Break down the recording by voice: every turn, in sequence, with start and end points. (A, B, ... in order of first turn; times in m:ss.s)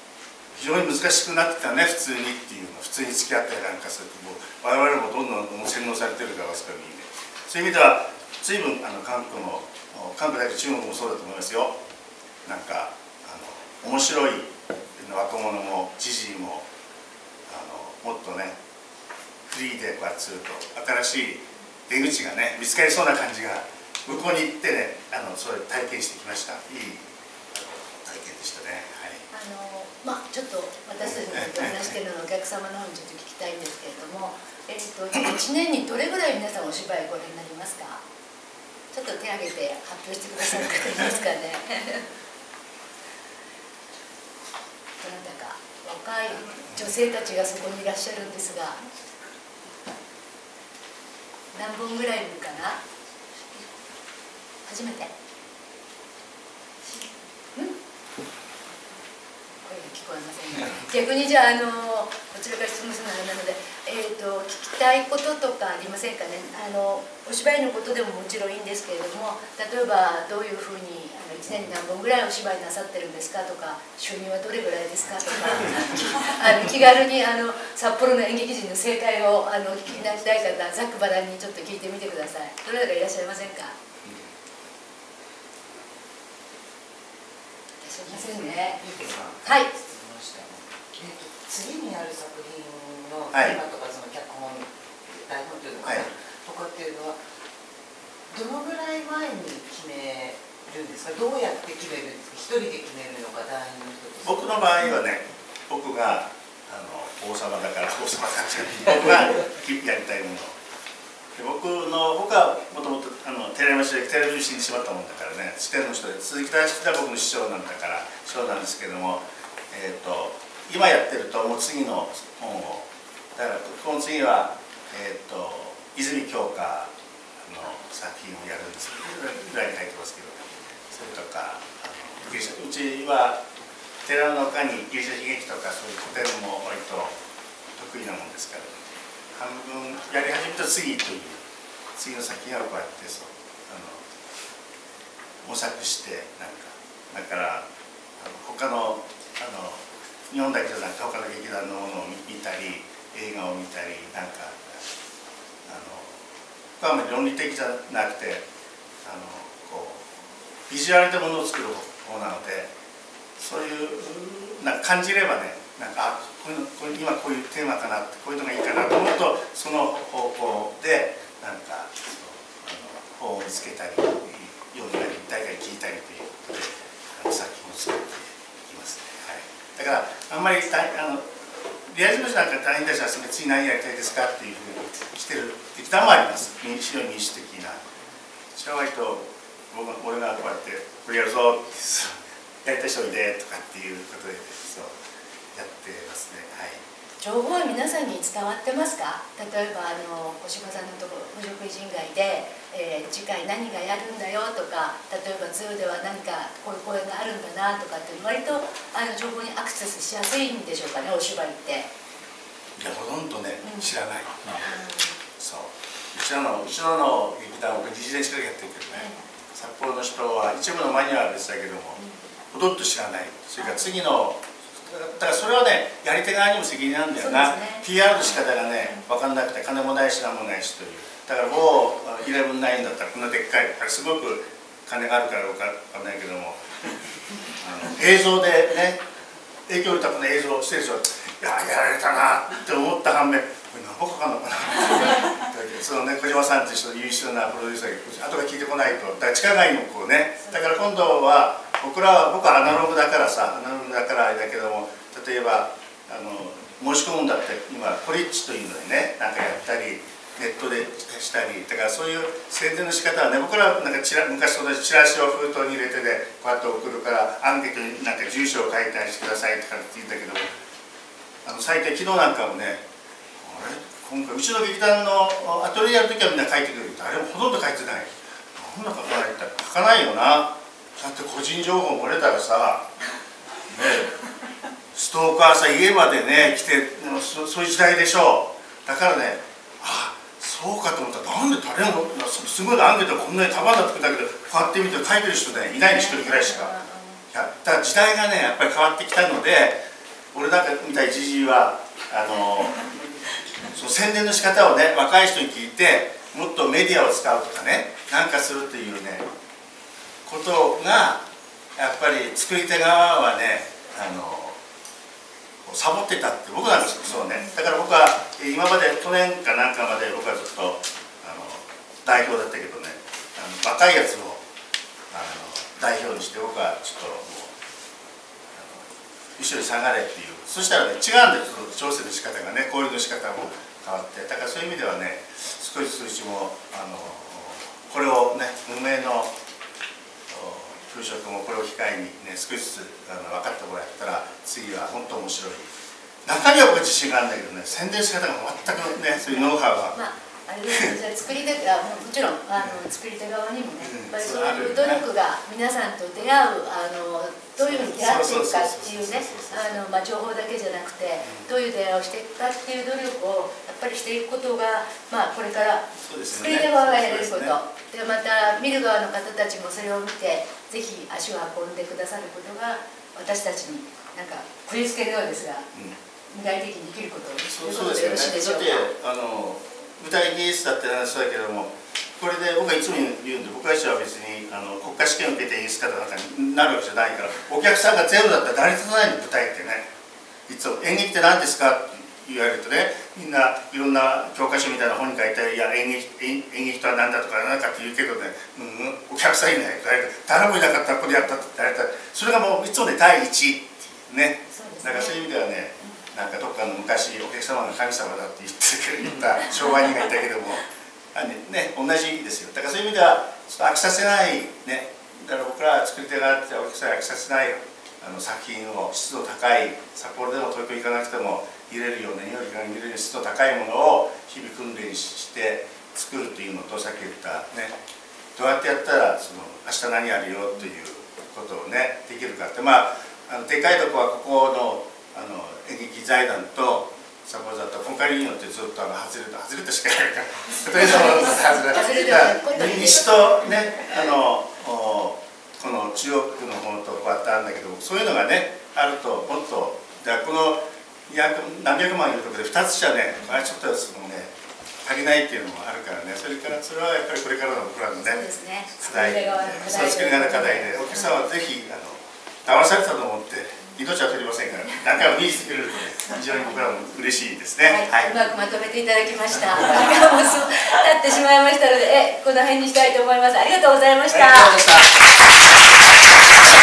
0:00.5-0:11.8 A
0:12.4-0:16.7 A
0:17.5-0:18.6 A
0:19.5-0:29.2 A
0:29.3-0:38.0 B
0:31.0-0:31.9 A
0:38.9-0:42.1 B
0:45.0-0:48.8 B
0:51.5-0:52.8 B
0:54.7-0:55.1 B
0:59.6-1:23.8 B
1:20.0-1:20.4 A
1:27.8-1:28.8 B
1:28.1-1:37.2 C
1:29.4-1:29.7 B
1:33.3-1:33.6 A
1:35.8-1:36.1 A
1:38.3-1:44.8 C
1:44.2-1:50.6 A
1:51.4-2:13.4 A
2:14.0-2:17.2 A
2:17.8-2:18.8 A
2:19.3-2:21.4 A
2:22.0-2:24.0 A
2:25.4-2:27.7 A
2:28.2-2:34.8 A
2:35.6-2:36.3 A
2:36.8-2:38.4 A
2:39.0-2:42.7 A
2:43.4-3:07.8 A
3:08.5-3:14.9 A
3:15.5-3:16.8 A
3:17.2-3:31.9 B
3:32.8-3:34.7 A
3:33.6-3:33.9 B
3:34.6-3:35.2 B
3:35.4-3:42.0 A
3:38.9-3:39.2 B
3:42.5-3:56.6 A
3:43.6-3:44.0 B
3:47.2-3:49.0 B
3:57.6-3:59.0 A
3:59.7-4:30.5 A
4:31.4-4:32.8 A
4:33.4-4:42.8 A
4:43.7-4:44.2 A
4:44.9-4:56.7 A
4:55.7-4:57.2 B
4:57.3-4:59.8 A
5:00.3-5:03.0 A
5:03.6-5:09.3 A
5:10.2-5:11.2 A
5:11.8-5:14.6 A
5:15.6-5:24.4 A
5:25.1-5:27.6 A
5:28.5-5:39.3 A
5:40.3-5:45.7 A
5:46.2-5:50.0 A
5:49.9-6:15.7 B
5:50.7-5:51.0 A
5:52.6-5:52.9 A
5:53.8-5:55.0 A
5:57.6-5:59.9 A
6:01.2-6:01.5 A
6:06.0-6:07.6 A
6:16.3-6:18.9 B
6:17.5-6:29.9 A
6:30.5-7:07.8 A
6:44.5-6:45.2 B
7:08.4-7:34.3 A
7:20.9-7:23.3 B
7:34.8-7:38.3 A
7:38.0-7:41.2 B
7:38.8-7:48.2 A
7:47.6-7:54.6 B
7:54.1-7:54.9 A